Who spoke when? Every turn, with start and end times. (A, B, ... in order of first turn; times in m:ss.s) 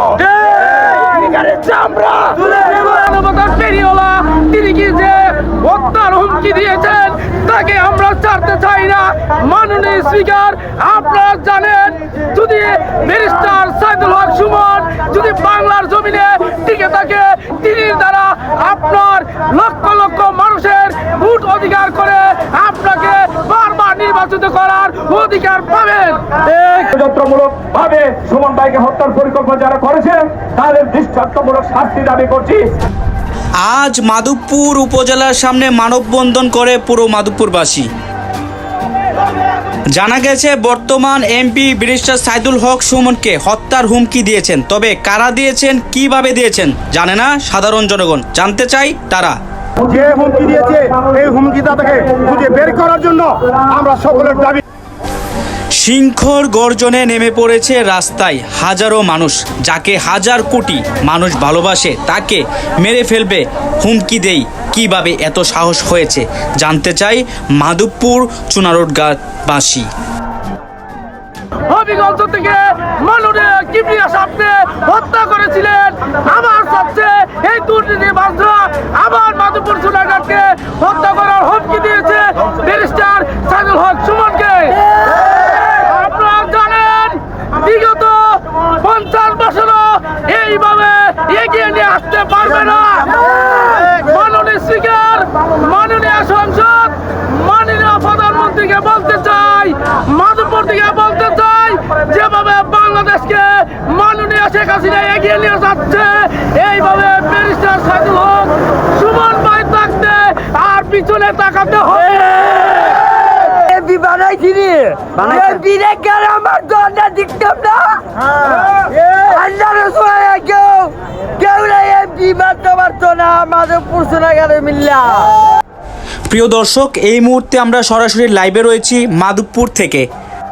0:00.7-0:26.8 A
0:26.9-0:32.7 B
0:33.6-0:37.9 C
0:39.9-0:49.4 C
0:49.8-0:54.6 D
0:55.8-1:09.9 C
1:11.7-1:53.2 A
1:53.4-2:05.3 E
2:06.3-2:10.1 C